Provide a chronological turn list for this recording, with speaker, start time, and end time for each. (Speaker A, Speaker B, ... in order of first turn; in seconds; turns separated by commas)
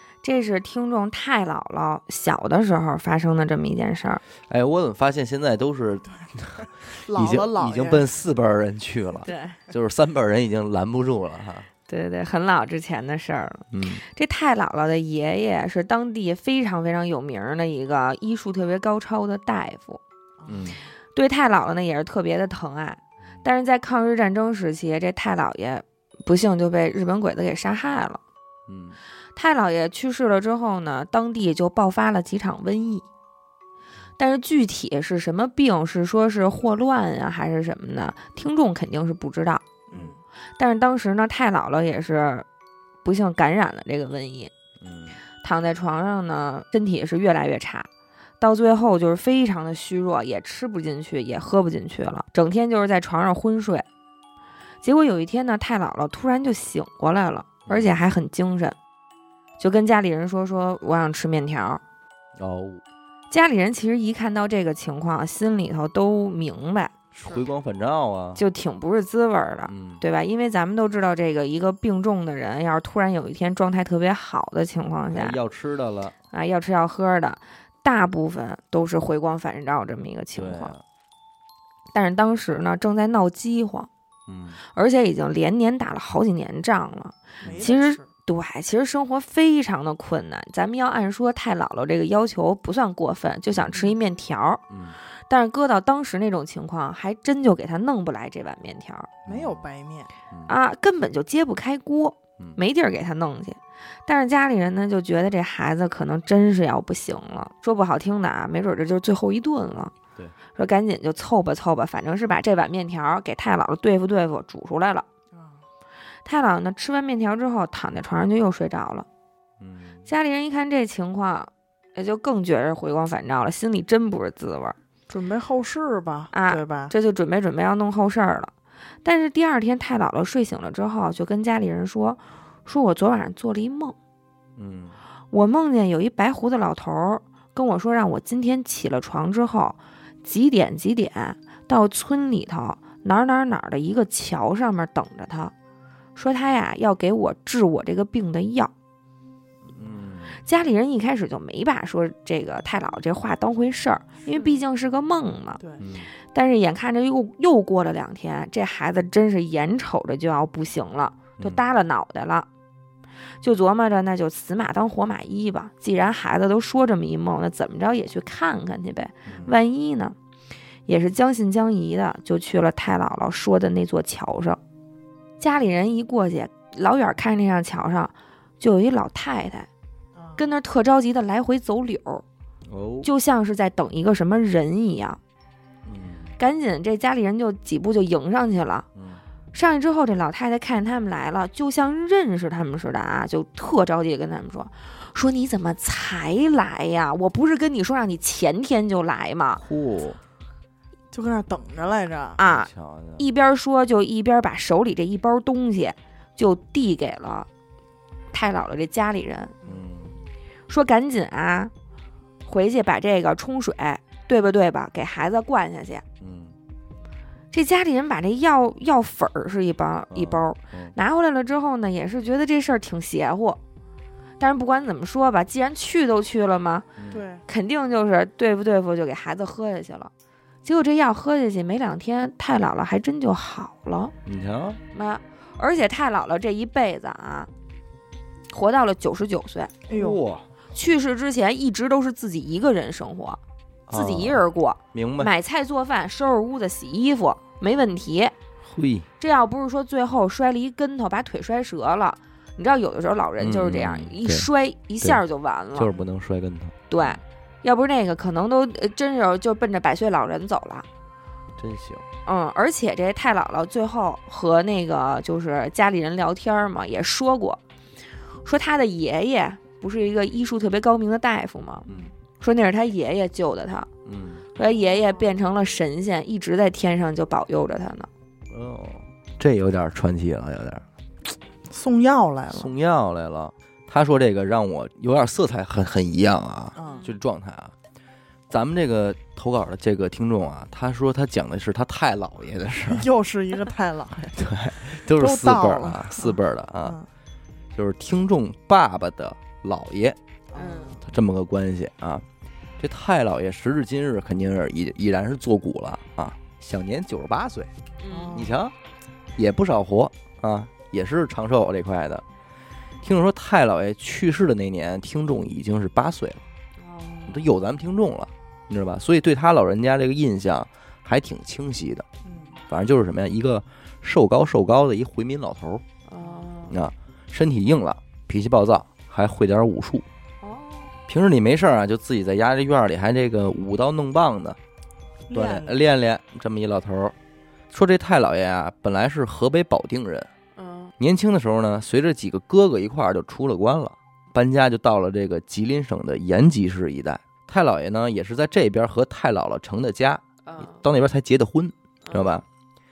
Speaker A: 0.2-4.2, Speaker B: 4.5-11.7, Speaker C: 6.8-8.1, Speaker A: 9.2-9.6, Speaker A: 11.9-20.0, Speaker B: 13.7-14.0, Speaker C: 20.4-20.8, Speaker B: 20.5-20.8, Speaker A: 21.1-28.2, Speaker B: 28.7-29.0, Speaker A: 29.3-33.0, Speaker A: 34.2-39.6, Speaker C: 39.9-40.2, Speaker A: 40.6-42.5, Speaker A: 43.0-44.5, Speaker B: 44.8-45.2, Speaker A: 45.4-47.9, Speaker A: 48.4-53.9, Speaker A: 54.8-58.8, Speaker B: 57.6-57.9, Speaker A: 59.6-61.8, Speaker B: 62.4-62.8, Speaker A: 63.3-67.4, Speaker B: 67.1-68.4, Speaker A: 68.4-75.4, Speaker B: 69.7-70.0, Speaker B: 75.1-76.1, Speaker A: 76.3-80.7, Speaker B: 80.3-80.8, Speaker A: 81.9-83.9, Speaker B: 84.3-84.6, Speaker A: 84.6-94.6, Speaker B: 87.4-87.7, Speaker C: 87.4-88.1, Speaker B: 93.5-93.8, Speaker B: 94.7-95.0, Speaker A: 95.3-99.1, Speaker B: 99.2-99.6, Speaker C: 99.3-100.1, Speaker A: 100.5-109.9, Speaker A: 110.5-115.0, Speaker C: 115.3-115.6, Speaker A: 116.2-119.1, Speaker B: 119.6-120.0, Speaker A: 120.1-124.8, Speaker C: 125.1-126.9, Speaker A: 126.3-128.5, Speaker A: 129.0-133.9, Speaker B: 134.6-135.0, Speaker A: 135.3-145.5, Speaker A: 146.2-148.7, Speaker B: 149.6-150.4, Speaker A: 150.4-155.6, Speaker C: 154.3-154.6, Speaker B: 155.8-156.1, Speaker A: 156.2-162.5, Speaker A: 163.4-170.2, Speaker B: 169.3-169.5, Speaker A: 170.8-174.6, Speaker A: 175.4-179.7, Speaker C: 180.2-180.4, Speaker A: 180.4-182.2, Speaker B: 182.7-183.1, Speaker A: 183.0-185.2, Speaker B: 185.8-186.3, Speaker A: 186.4-188.8, Speaker B: 188.9-189.2, Speaker A: 189.5-199.6, Speaker B: 199.6-200.2, Speaker C: 201.1-202.4, Speaker A: 202.4-207.5, Speaker B: 202.4-203.2, Speaker A: 208.3-209.5, Speaker B: 209.6-210.2, Speaker A: 210.7-211.7, Speaker A: 212.4-216.0, Speaker B: 216.2-216.5, Speaker A: 217.5-223.6, Speaker B: 220.1-220.9, Speaker A: 224.4-226.9, Speaker C: 227.1-227.4, Speaker A: 227.5-230.1, Speaker A: 230.6-234.1, Speaker B: 234.2-234.8, Speaker A: 234.9-237.5, Speaker A: 238.5-239.7, Speaker C: 239.9-240.2, Speaker B: 239.9-240.5, Speaker A: 240.7-248.3, Speaker B: 243.9-244.4, Speaker B: 244.9-245.3, Speaker B: 248.6-249.1, Speaker A: 249.2-256.0, Speaker B: 253.4-254.5, Speaker B: 255.7-257.2, Speaker A: 256.9-260.9, Speaker B: 261.6-262.0, Speaker A: 262.2-267.6, Speaker A: 268.4-271.9, Speaker B: 271.9-272.1, Speaker A: 272.4-273.9, Speaker B: 274.1-274.4, Speaker A: 274.5-278.1, Speaker C: 274.9-275.2, Speaker B: 278.5-280.8, Speaker C: 281.7-282.7, Speaker B: 282.5-287.7, Speaker C: 286.8-287.1, Speaker A: 286.8-287.1, Speaker B: 288.5-293.0, Speaker C: 292.9-297.1, Speaker B: 294.3-297.0, Speaker B: 297.7-300.2, Speaker C: 300.5-301.0, Speaker A: 300.5-301.0, Speaker B: 301.0-302.2, Speaker B: 302.8-307.7, Speaker A: 308.0-308.5, Speaker C: 308.1-308.5, Speaker B: 308.3-308.7, Speaker B: 309.4-312.2, Speaker B: 313.0-316.4, Speaker A: 316.8-317.4, Speaker B: 317.3-322.1, Speaker C: 322.2-322.5, Speaker B: 322.7-325.8, Speaker A: 326.1-326.8, Speaker B: 326.7-330.1, Speaker A: 330.4-330.9, Speaker B: 331.1-334.6, Speaker C: 335.3-335.8, Speaker B: 335.3-337.1, Speaker B: 337.7-340.3, Speaker A: 340.6-340.9, Speaker B: 341.0-352.4, Speaker A: 350.4-350.8, Speaker A: 352.0-352.4